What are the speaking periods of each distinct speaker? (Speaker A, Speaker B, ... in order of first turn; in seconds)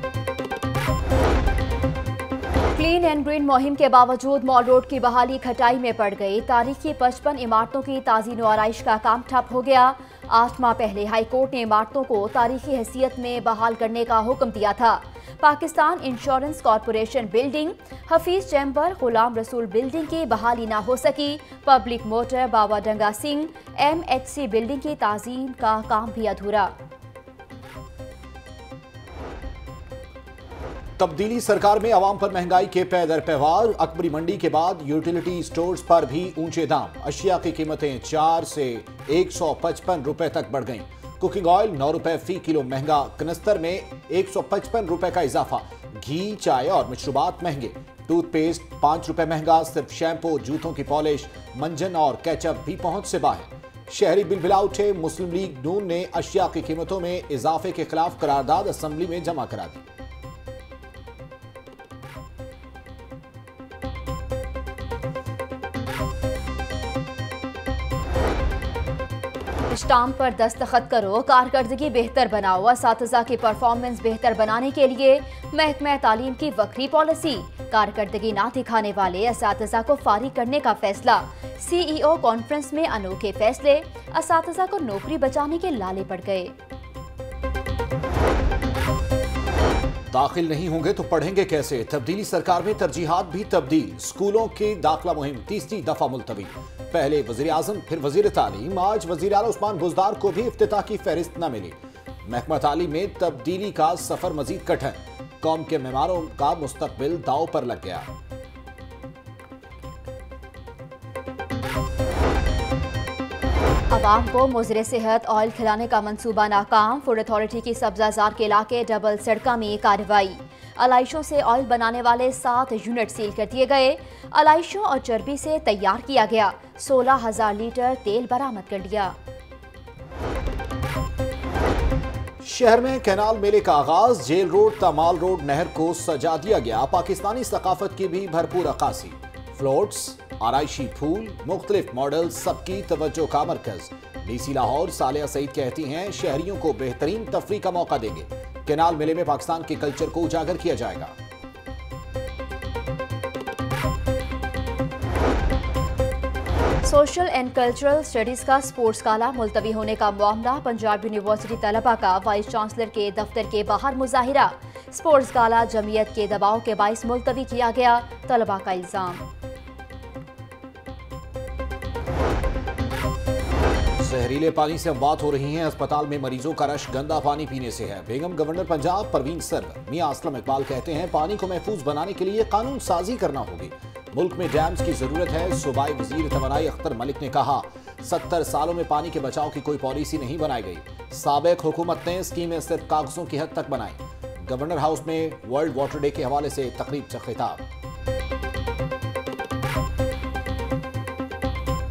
Speaker A: 2.7-26.7, 69.7-86.5, 113.9-129.2, 156.8-169.2
Speaker B: 31.0-59.9, 90.1-108.1, 132.4-151.1, 174.0-197.6